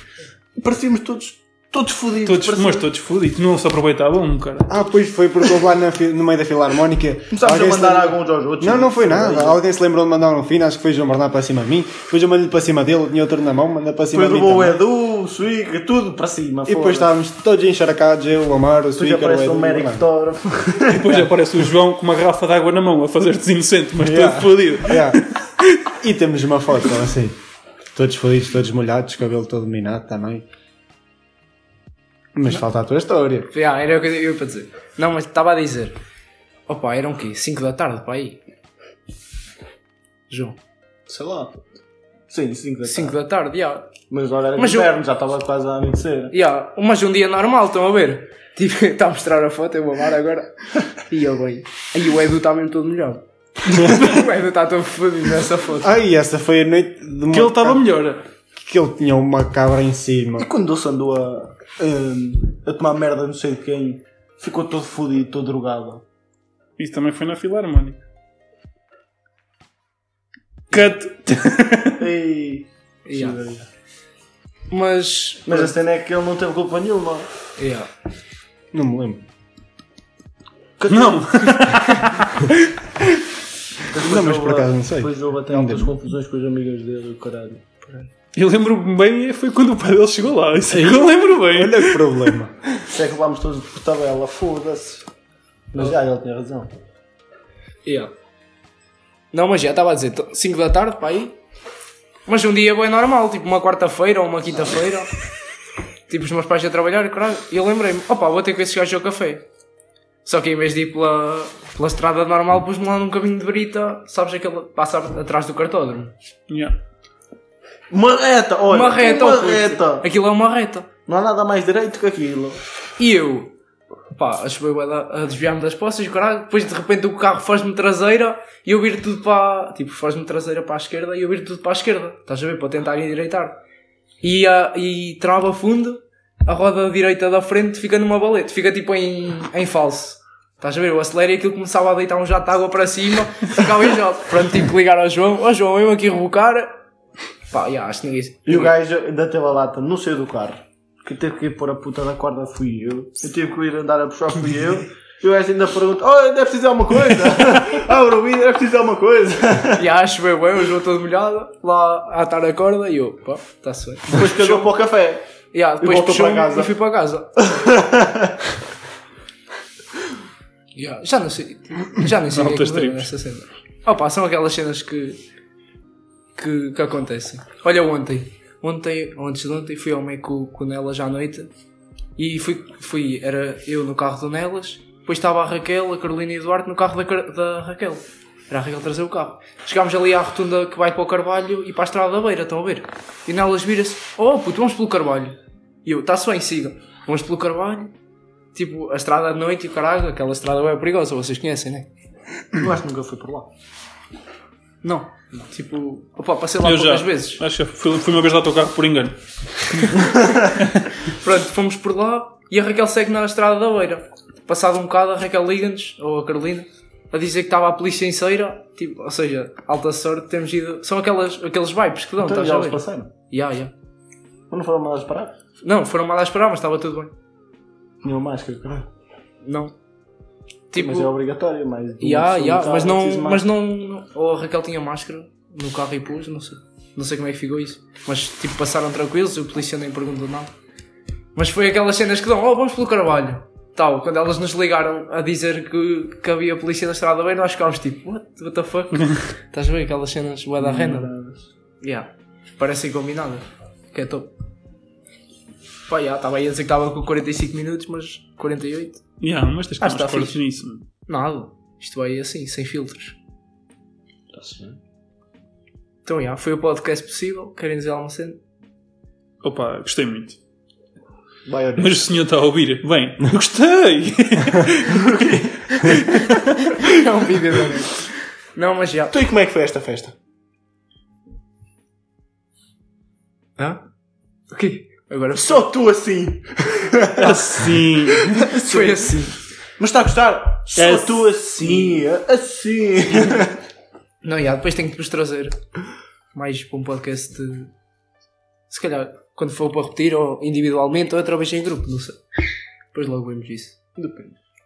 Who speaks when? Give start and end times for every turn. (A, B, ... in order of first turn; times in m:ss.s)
0:00.6-0:02.8 A
0:02.2-0:04.7 B
0:04.7-0:14.8 C
0:07.3-0:09.6 A
0:14.1-0:17.1 A
0:16.6-0:20.0 C
0:19.0-0:21.2 A
0:20.9-0:25.7 B
0:24.0-0:25.2 C
0:26.0-0:27.4 C
0:27.9-0:30.4 C
0:32.3-0:33.5 C
0:33.5-0:36.0 D
0:36.7-0:38.4 D
0:40.3-0:40.6 D
0:41.1-0:41.6 A
0:42.3-0:43.2 A
0:42.8-0:44.0 D
0:44.1-0:46.3 A
0:44.6-0:44.9 D
0:46.3-0:56.0 D
0:55.8-0:57.8 C
0:57.3-0:58.2 B
0:58.6-1:00.5 C
1:00.4-1:06.0 A
1:06.8-1:08.0 B
1:10.7-1:12.0 B
1:12.0-1:13.7 A
1:13.0-1:13.4 D
1:14.7-1:15.7 D
1:15.4-1:17.3 A
1:17.6-1:17.9 D
1:18.7-1:19.2 C
1:20.8-1:21.7 A
1:20.9-1:22.6 B
1:23.9-1:27.6 A
1:24.0-1:26.0 C
1:27.8-1:28.1 D
1:28.3-1:32.3 B
1:30.7-1:32.5 C
1:32.8-1:35.0 A
1:35.7-1:36.7 A
1:37.8-1:38.1 D
1:39.3-1:41.4 D
1:42.3-1:45.1 D
1:46.1-1:49.4 D
1:50.2-1:56.1 D
1:56.5-1:56.8 B
1:57.9-2:00.0 A
1:58.7-2:00.9 D
2:01.1-2:02.6 A
2:03.0-2:03.5 D
2:04.1-2:13.6 D
2:14.2-2:26.7 D
2:27.5-2:28.7 D
2:28.4-2:39.8 A
2:39.8-2:44.7 D
2:44.1-2:45.2 A
2:45.5-2:47.4 D
2:45.8-2:46.7 A
2:47.4-2:48.3 A
2:50.7-2:55.2 D
2:52.3-2:53.1 B
2:56.4-3:01.5 D
3:02.2-3:17.9 D
3:18.5-3:21.9 D
3:22.5-3:23.5 A
3:24.8-3:27.4 D
3:26.6-3:29.9 B
3:30.6-3:30.9 B
3:31.1-3:43.7 D
3:42.2-3:43.1 A
3:44.5-3:45.3 A
3:45.6-3:47.1 D
3:48.0-3:48.9 A
3:49.4-3:49.7 D
3:50.7-3:51.1 D
3:50.7-3:53.4 A
3:52.0-4:00.5 D
4:01.3-4:11.1 D
4:10.6-4:11.5 A
4:11.8-4:14.3 D
4:15.9-4:19.0 D
4:19.2-4:20.8 B
4:19.8-4:20.4 D
4:21.1-4:23.2 D
4:24.3-4:24.8 A
4:26.0-4:28.4 D
4:29.4-4:30.4 B
4:31.4-4:32.0 A
4:31.8-4:35.2 B
4:34.9-4:36.0 A
4:35.8-4:36.4 B
4:36.8-4:39.1 D
4:39.1-4:40.1 A
4:43.6-4:43.8 D
4:44.5-4:45.7 D
4:45.4-4:49.2 A
4:47.2-4:48.4 B
4:48.5-4:49.3 D
4:49.8-4:53.5 A
4:50.8-4:52.0 B
4:54.2-4:55.6 D
4:56.3-4:57.7 D
4:58.7-5:02.2 D
5:02.9-5:03.8 D
5:04.0-5:04.3 A